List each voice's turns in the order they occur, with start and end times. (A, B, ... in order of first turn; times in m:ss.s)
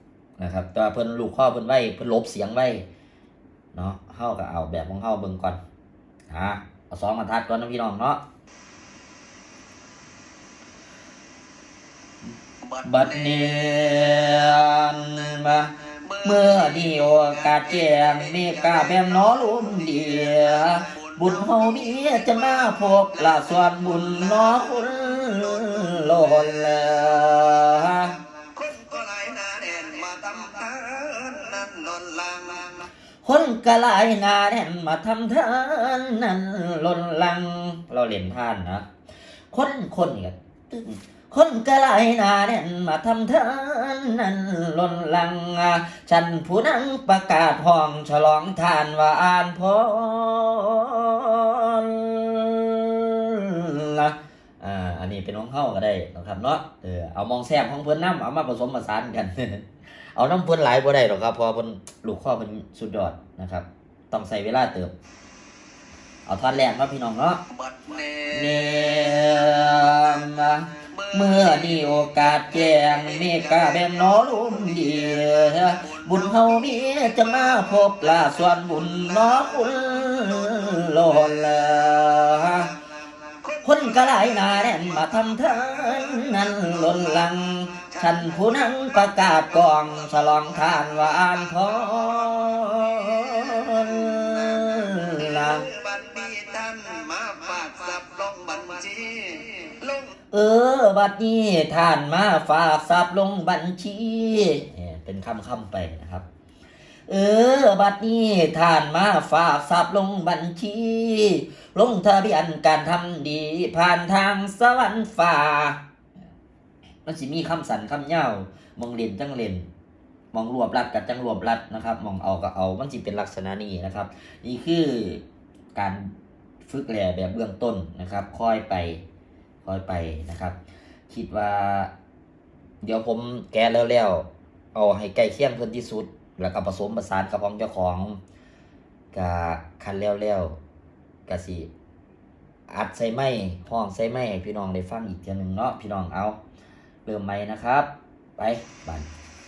0:00.4-0:02.9 A
0:03.7-0:05.6 A
0:06.3-0:08.2 A
0:12.8-0:13.9 B
0:12.8-0:28.2 A
0:15.8-0:22.4 B
0:24.0-0:24.6 B
0:25.6-0:26.0 B
0:28.4-0:32.9 B
0:33.2-0:38.9 A
0:39.5-1:04.9 A
1:06.3-1:07.4 A
1:07.5-1:09.7 B
1:08.3-1:22.7 A
1:11.0-1:12.0 B
1:12.8-1:15.3 B
1:16.1-1:16.4 B
1:23.6-1:35.7 A
1:26.5-1:26.9 B
1:33.6-1:40.1 B
1:40.3-1:46.3 A
1:47.1-1:55.8 A
1:57.1-1:59.7 A
2:00.3-2:05.2 A
2:05.8-2:06.1 A
2:06.7-2:09.0 A
2:09.6-2:10.6 A
2:11.1-2:11.9 A
2:12.8-2:18.2 A
2:19.1-2:20.6 A
2:21.3-2:21.7 A
2:22.7-2:26.4 A
2:27.1-2:29.1 A